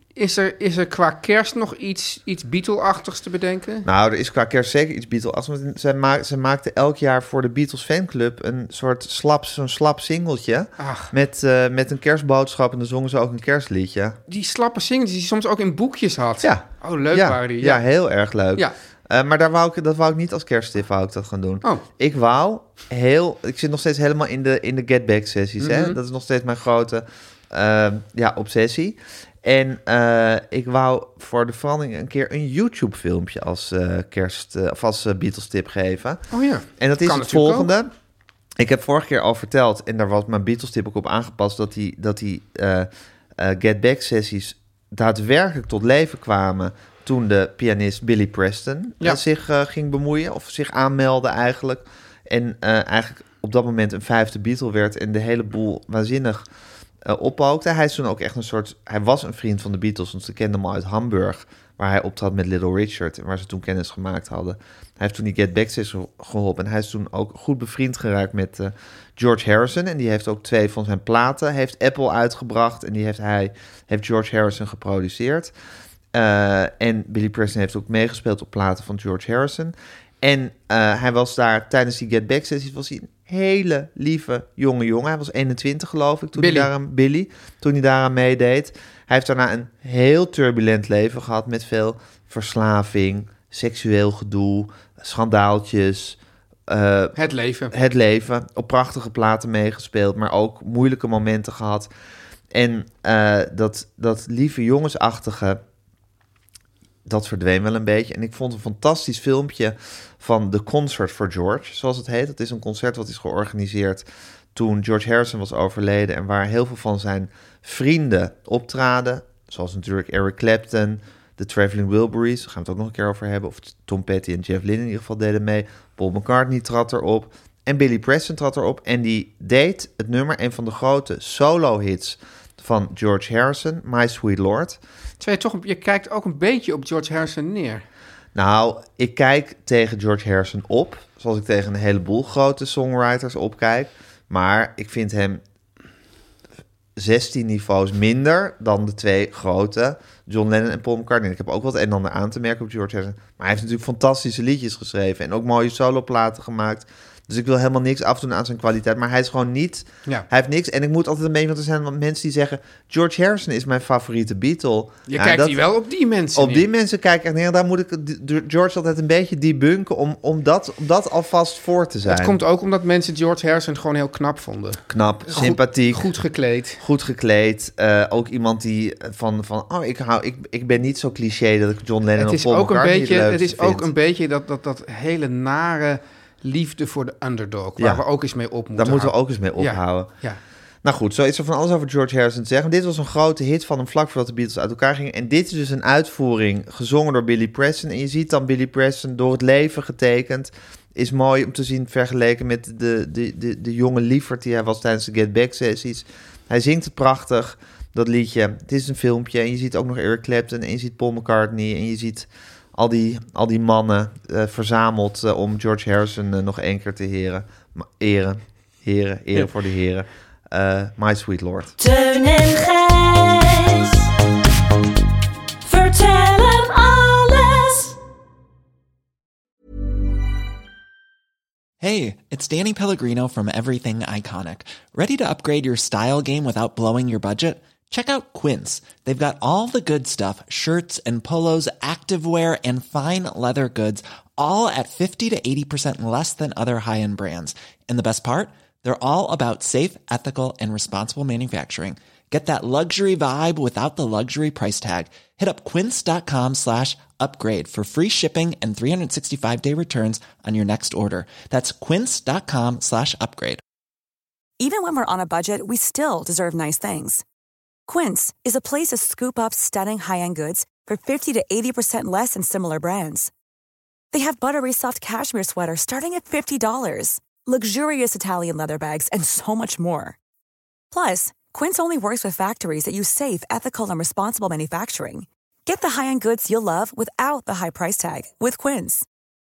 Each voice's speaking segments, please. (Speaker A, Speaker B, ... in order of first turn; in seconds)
Speaker A: 0.1-3.9, 10.8-11.1, 14.3-17.8, 25.6-26.0, 36.3-37.7, 86.4-86.7, 97.2-97.7, 135.2-137.8, 165.1-166.7, 172.1-176.8, 182.2-190.4
Speaker B: 3.9-14.2, 16.4-37.9, 38.5-56.5, 57.0-75.5, 76.1-97.2, 97.7-101.9, 102.5-105.6, 107.0-134.8, 138.3-145.4, 146.9-165.6, 166.3-172.4, 174.9-176.1, 176.8-183.9, 187.8-188.0, 188.7-190.1, 190.8-221.7
Speaker C: 221.8-224.1, 225.6-228.0
Speaker D: 231.8-263.6
Speaker E: 264.6-267.2, 267.9-273.3, 274.1-280.2, 280.9-289.1